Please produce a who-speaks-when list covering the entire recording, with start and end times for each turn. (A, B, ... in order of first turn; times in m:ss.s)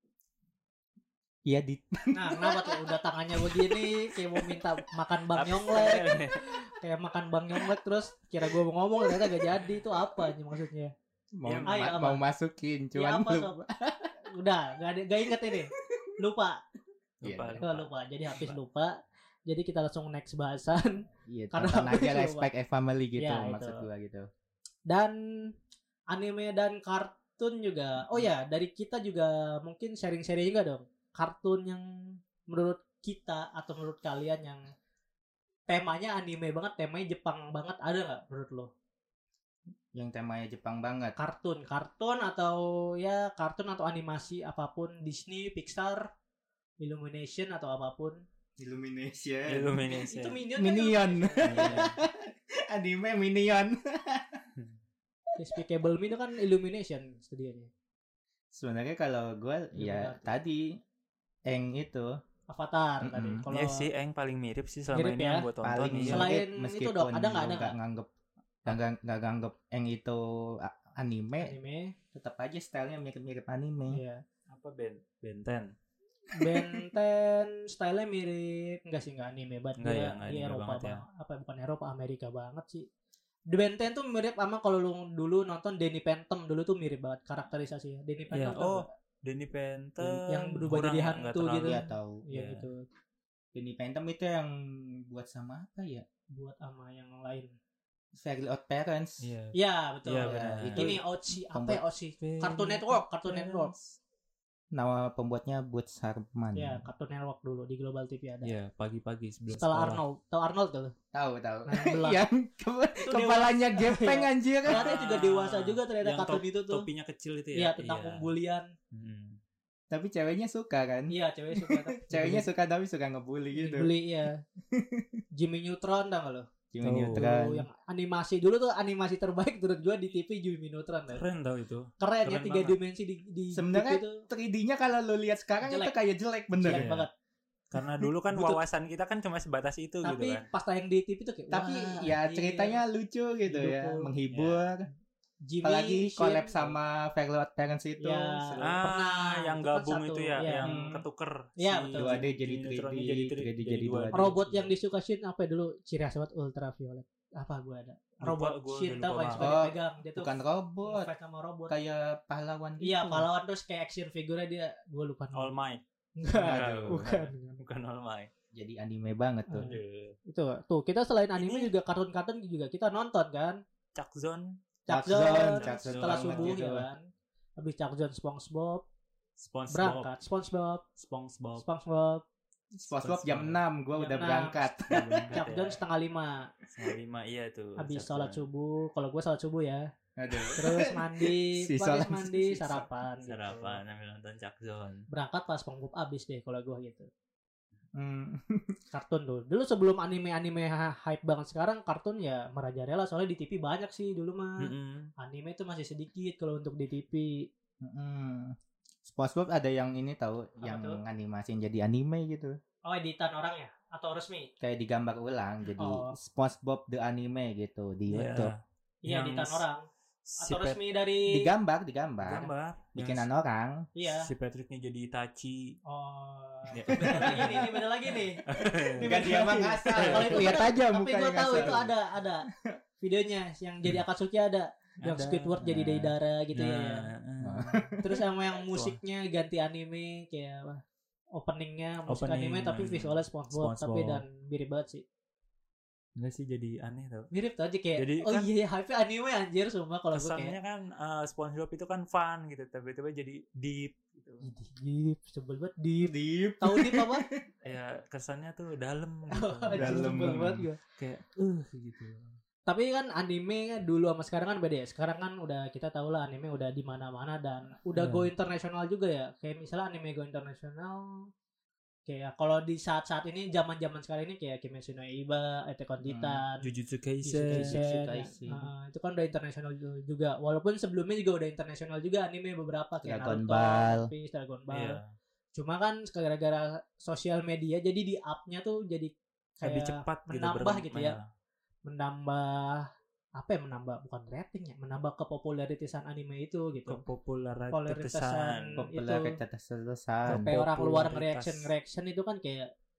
0:01.5-0:04.6 A
0:02.1-0:10.9 B
0:05.3-0:06.5 C
0:09.0-0:09.4 A
0:11.4-0:14.2 A
0:11.4-0:11.9 C
0:11.7-0:12.2 B
0:12.9-0:13.6 B
0:14.3-0:16.6 B
0:15.4-0:16.1 A
0:17.2-0:18.6 C
0:17.2-0:17.6 A
0:17.6-0:18.9 B
0:19.5-0:22.5 B
0:21.3-0:24.3 A
0:23.2-0:23.9 B
0:24.9-0:25.5 B
0:26.1-0:34.7 B
0:35.7-0:38.7 B
0:39.9-0:41.2 A
0:41.2-0:46.1 B
0:46.8-0:48.2 B
0:48.6-0:49.8 A
0:49.5-0:50.4 C
0:49.8-0:51.9 B
0:50.6-0:54.4 A
0:51.4-0:52.0 C
0:55.4-0:57.7 B
0:58.5-1:00.8 A
0:59.8-1:00.3 B
1:01.5-1:02.2 A
1:02.5-1:03.9 B
1:03.0-1:03.4 A
1:03.5-1:06.3 C
1:04.9-1:05.4 B
1:05.6-1:08.1 A
1:06.0-1:07.7 B
1:08.6-1:11.5 A
1:11.4-1:11.9 B
1:12.1-1:14.0 A
1:13.9-1:14.2 B
1:14.5-1:15.7 C
1:16.3-1:22.9 B
1:19.8-1:21.0 C
1:23.5-1:28.9 B
1:28.3-1:32.7 C
1:30.0-1:32.8 B
1:31.6-1:32.2 A
1:33.5-1:34.5 A
1:35.0-1:36.0 A
1:36.3-1:37.5 B
1:38.2-1:39.2 A
1:39.2-1:41.0 C
1:39.5-1:43.7 B
1:40.2-1:41.8 A
1:42.2-1:43.7 C
1:44.7-1:46.8 A
1:46.6-1:48.5 B
1:48.4-1:50.0 C
1:49.5-1:50.9 B
1:51.1-1:54.9 A
1:51.7-1:52.2 B
1:53.0-1:56.9 B
1:54.6-1:58.3 C
1:57.5-1:58.7 B
1:58.9-1:59.4 C
1:59.9-2:03.9 A
2:01.1-2:02.5 B
2:03.5-2:04.4 B
2:04.7-2:05.2 A
2:05.3-2:06.5 B
2:06.7-2:07.6 A
2:06.8-2:07.4 C
2:07.1-2:11.2 B
2:11.1-2:12.8 C
2:12.0-2:14.2 B
2:13.5-2:16.9 A
2:15.6-2:15.9 B
2:16.6-2:17.1 B
2:16.7-2:17.1 C
2:17.7-2:20.5 C
2:18.3-2:18.6 B
2:20.0-2:22.8 B
2:21.5-2:24.9 A
2:23.5-2:24.1 B
2:24.3-2:24.6 C
2:25.4-2:26.5 B
2:25.6-2:28.8 A
2:28.0-2:30.7 B
2:28.6-2:34.7 C
2:30.6-2:31.0 A
2:31.6-2:32.2 B
2:32.0-2:34.3 A
2:34.1-2:40.3 B
2:38.2-2:39.5 C
2:39.4-2:41.1 A
2:40.8-2:41.7 B
2:41.7-2:43.3 A
2:42.8-2:45.5 B
2:45.3-2:45.8 C
2:46.2-2:47.6 B
2:46.3-2:47.1 A
2:46.4-2:48.3 C
2:48.5-2:49.6 A
2:49.5-2:53.6 B
2:49.6-2:50.2 C
2:51.4-2:51.7 C
2:53.9-2:56.6 C
2:54.9-2:57.0 B
2:54.9-2:56.8 A
2:57.6-2:58.8 B
2:59.4-3:00.1 C
2:59.7-3:00.8 B
3:01.0-3:01.6 C
3:01.6-3:02.2 B
3:02.8-3:05.4 A
3:03.0-3:03.6 C
3:04.0-3:04.8 B
3:04.9-3:05.8 C
3:05.3-3:06.5 B
3:06.7-3:08.4 C
3:07.8-3:09.8 B
3:10.2-3:12.8 A
3:10.5-3:13.8 B
3:12.6-3:15.0 C
3:15.1-3:17.1 B
3:18.0-3:18.8 A
3:18.9-3:27.5 B
3:24.6-3:25.1 C
3:27.8-3:32.6 A
3:30.6-3:31.0 B
3:32.8-3:34.5 B
3:34.6-3:38.5 A
3:35.8-3:36.2 B
3:38.1-3:39.6 C
3:39.0-3:39.8 B
3:40.2-3:40.8 C
3:40.4-3:41.5 B
3:41.3-3:43.9 A
3:42.2-3:43.3 C
3:44.0-3:44.3 B
3:44.0-3:45.8 C
3:45.8-3:52.5 B
3:46.7-3:47.8 C
3:46.9-3:47.6 A
3:48.4-3:50.6 C
3:49.0-3:51.9 A
3:53.0-3:57.1 B
3:55.0-3:55.6 C
3:55.6-3:56.1 A
3:56.5-3:57.8 C
3:57.4-3:58.1 A
3:58.0-4:00.8 B
3:58.7-3:59.0 C
4:01.3-4:05.0 B
4:02.1-4:04.2 C
4:06.2-4:07.3 C
4:07.3-4:10.5 B
4:08.0-4:08.5 C
4:10.1-4:14.5 C
4:14.4-4:17.2 B
4:16.0-4:17.4 A
4:17.6-4:22.4 C
4:19.3-4:20.8 B
4:19.7-4:20.6 A
4:22.7-4:31.0 B
4:27.9-4:28.3 C
4:32.1-4:36.7 B
4:36.0-4:36.4 A
4:36.6-4:37.8 C
4:37.2-4:45.0 B
4:37.5-4:38.7 A
4:43.0-4:44.1 A
4:44.7-4:45.1 C
4:45.5-4:51.2 B
4:49.6-4:51.2 C
4:51.8-4:57.0 B
4:56.8-4:58.8 C
4:57.7-4:59.4 B
4:58.8-5:00.5 A
5:00.3-5:01.7 C
5:00.3-5:02.7 B